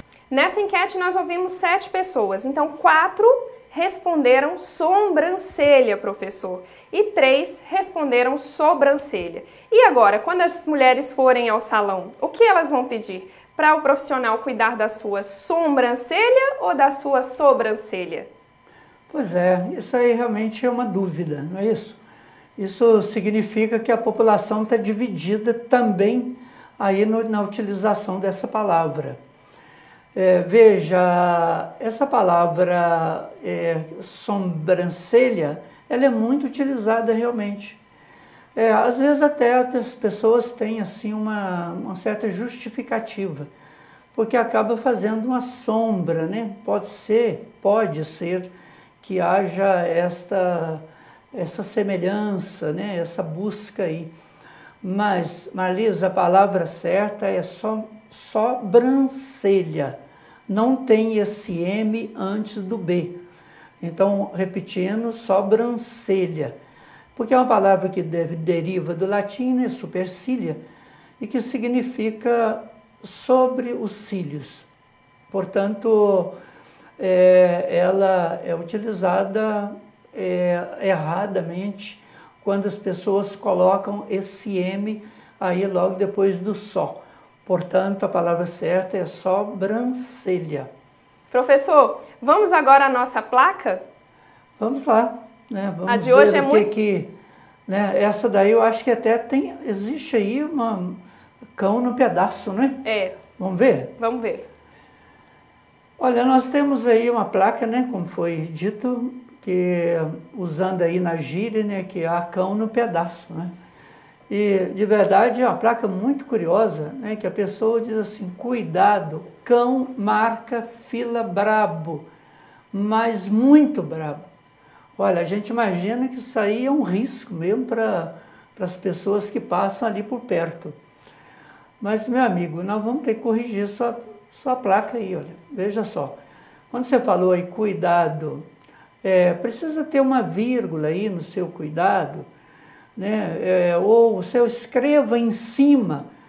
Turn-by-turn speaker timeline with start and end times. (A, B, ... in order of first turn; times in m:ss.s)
0:00.3-0:18.3 A
0:19.1-0:22.0 B
0:22.6-0:29.2 B
0:30.1-0:37.8 B
0:38.5-0:43.5 B
0:44.1-0:54.1 B
0:54.8-1:03.2 B
1:03.8-1:06.6 B
1:07.2-1:10.6 B
1:11.2-1:14.7 B
1:15.3-1:16.4 B
1:17.0-1:30.7 B
1:31.3-1:33.8 A
1:34.6-1:37.1 B
1:35.8-1:36.7 A
1:37.7-1:41.0 B
1:41.6-1:42.8 B
1:42.8-1:43.2 A
1:43.4-1:44.0 B
1:44.0-1:44.4 A
1:46.0-1:53.5 B
1:54.3-2:02.1 B
2:02.7-2:04.3 B
2:05.0-2:10.8 B
2:11.8-2:16.2 B
2:16.7-2:18.5 B
2:19.0-2:22.3 B
2:23.0-2:26.1 B